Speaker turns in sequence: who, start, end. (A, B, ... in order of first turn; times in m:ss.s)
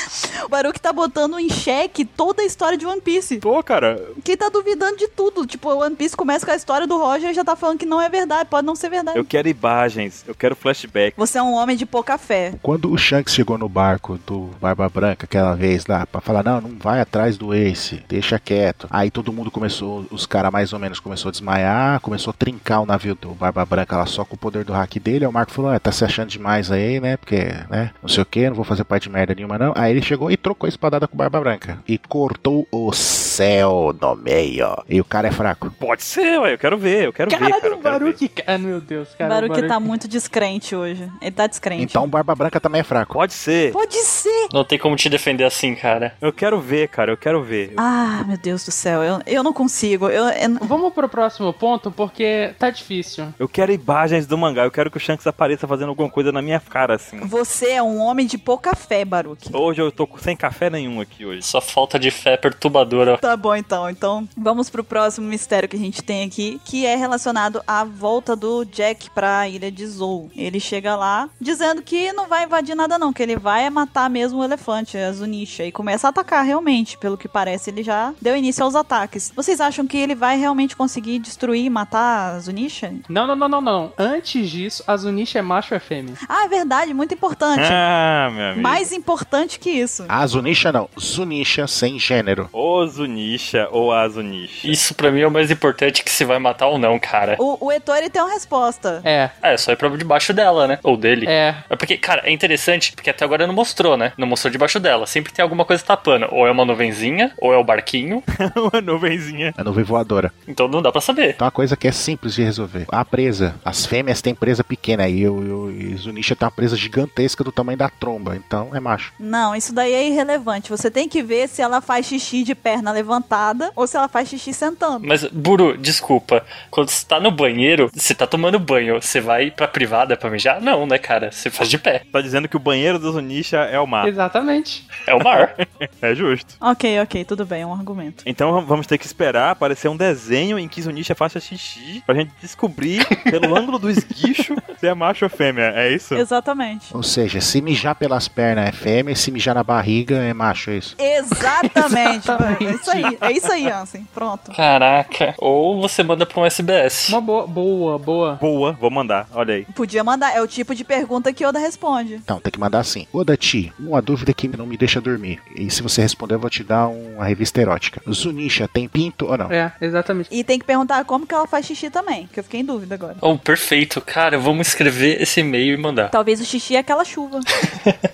0:00.5-0:03.4 A
0:03.4-0:04.2 B
0:04.2-0:09.3 A
0:09.1-0:11.2 B
0:11.2-0:12.6 A
0:12.6-0:35.7 C
0:35.8-0:38.2 B
0:37.3-0:39.8 D
0:39.2-0:42.1 A
0:41.8-0:43.2 C
0:43.1-0:43.8 B
0:43.7-0:44.5 A
0:44.5-0:46.1 E
0:46.2-0:47.8 B
0:47.8-0:50.7 A
0:50.6-0:53.4 D
0:53.4-0:57.3 B
0:57.2-0:59.6 A
0:59.5-1:01.5 B
1:01.4-1:03.2 E
1:03.2-1:23.0 A
1:23.1-1:26.2 D
1:26.3-1:27.8 A
1:27.6-1:28.9 B
1:28.6-1:30.1 A
1:30.1-1:32.5 C
1:32.5-1:34.8 B
1:34.6-1:37.4 E
1:37.4-1:39.1 A
1:39.0-1:39.3 D
1:39.4-1:48.2 E
1:41.2-1:41.6 D
1:48.4-1:49.6 B
1:49.6-1:50.3 C
1:50.5-1:51.4 E
1:51.4-1:59.1 C
1:59.2-2:05.1 A
2:05.0-2:12.0 E
2:12.1-2:14.1 B
2:14.0-2:14.9 D
2:15.0-2:15.6 E
2:15.2-2:16.6 B
2:16.6-2:18.2 A
2:18.2-2:26.2 B
2:26.1-2:26.9 A
2:26.9-2:31.0 C
2:31.0-2:34.6 A
2:32.2-2:33.2 D
2:34.5-2:37.2 E
2:37.1-2:38.4 D
2:38.4-2:39.7 B
2:39.7-2:42.2 A
2:42.3-2:49.5 C
2:49.5-2:50.3 D
2:50.3-2:53.2 A
2:53.2-2:56.1 E
2:56.1-2:57.5 A